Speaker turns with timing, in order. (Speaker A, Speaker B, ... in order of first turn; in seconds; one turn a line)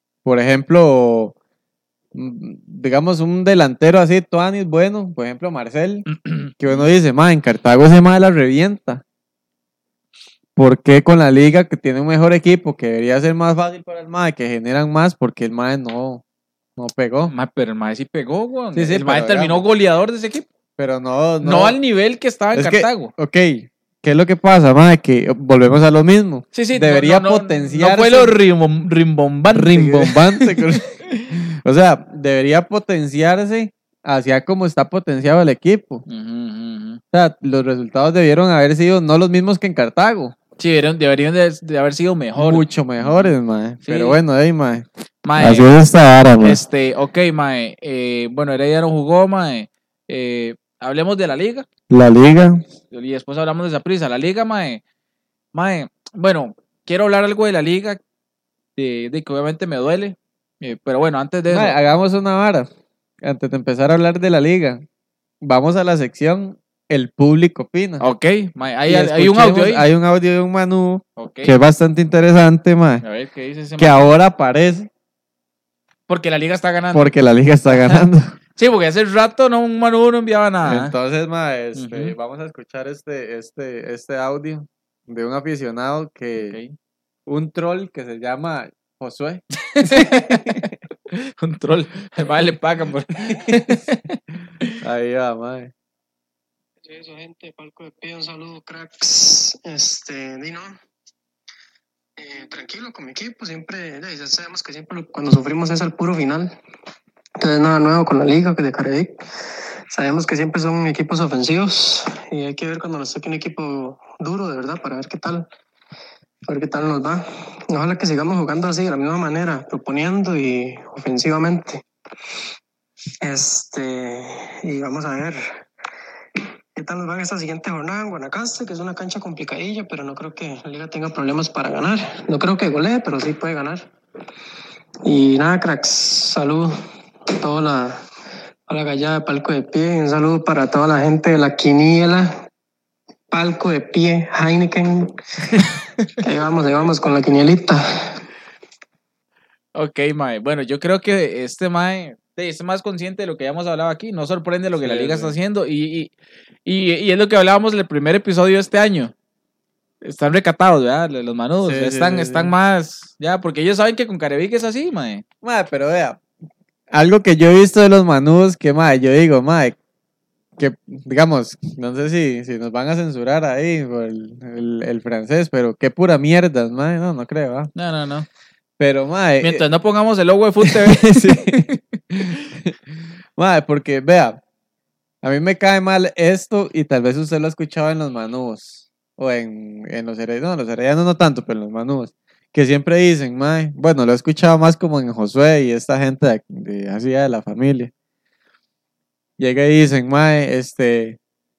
Speaker A: 0.2-1.3
Speaker A: 2.1-6.1
Speaker B: 6.2-6.9
Speaker A: 6.6-9.0
Speaker A: 10.6-16.2
Speaker A: 16.8-17.3
Speaker B: 17.3-20.5
Speaker A: 18.7-19.6
Speaker A: 20.8-21.8
Speaker B: 21.4-23.1
Speaker A: 22.6-28.4
Speaker B: 26.5-31.3
Speaker A: 29.5-36.0
Speaker B: 36.1-37.0
Speaker A: 37.1-40.4
Speaker B: 40.6-44.2
Speaker A: 42.4-44.9
Speaker B: 45.2-45.7
Speaker A: 45.4-46.6
Speaker B: 46.4-51.7
Speaker A: 51.9-52.6
Speaker B: 52.9-54.8
Speaker B: 55.5-58.0
Speaker B: 58.8-61.8
Speaker A: 61.5-62.7
Speaker A: 63.2-64.8
Speaker A: 65.4-68.0
Speaker B: 68.0-69.9
Speaker A: 68.9-73.0
Speaker B: 71.2-71.5
Speaker B: 73.0-74.1
Speaker A: 73.8-74.9
Speaker B: 76.1-77.1
Speaker A: 76.9-78.3
Speaker B: 77.7-78.0
Speaker B: 78.6-81.0
Speaker A: 80.7-86.6
Speaker B: 81.8-82.2
Speaker B: 86.4-86.8
Speaker A: 87.3-90.7
Speaker B: 89.6-94.8
Speaker A: 93.2-93.8
Speaker A: 94.8-95.7
Speaker C: 96.8-100.8
Speaker C: 102.2-106.5
Speaker C: 107.4-109.2
Speaker C: 109.9-115.5
Speaker C: 116.5-121.8
Speaker C: 123.2-125.5
Speaker C: 126.8-133.8
Speaker C: 135.1-136.8
Speaker C: 137.4-138.0
Speaker C: 138.7-142.4
Speaker C: 143.3-145.1
Speaker C: 146.2-148.2
Speaker B: 149.8-156.1
Speaker A: 154.8-155.4
Speaker B: 156.7-159.1
Speaker B: 160.0-165.2
Speaker A: 161.6-162.5
Speaker A: 165.4-166.2
Speaker A: 166.9-169.8
Speaker A: 170.6-177.7
Speaker B: 177.8-178.3
Speaker A: 178.8-179.6
Speaker B: 179.4-181.8
Speaker A: 180.6-182.8
Speaker A: 183.4-184.4
Speaker A: 185.2-197.9
Speaker A: 199.4-201.2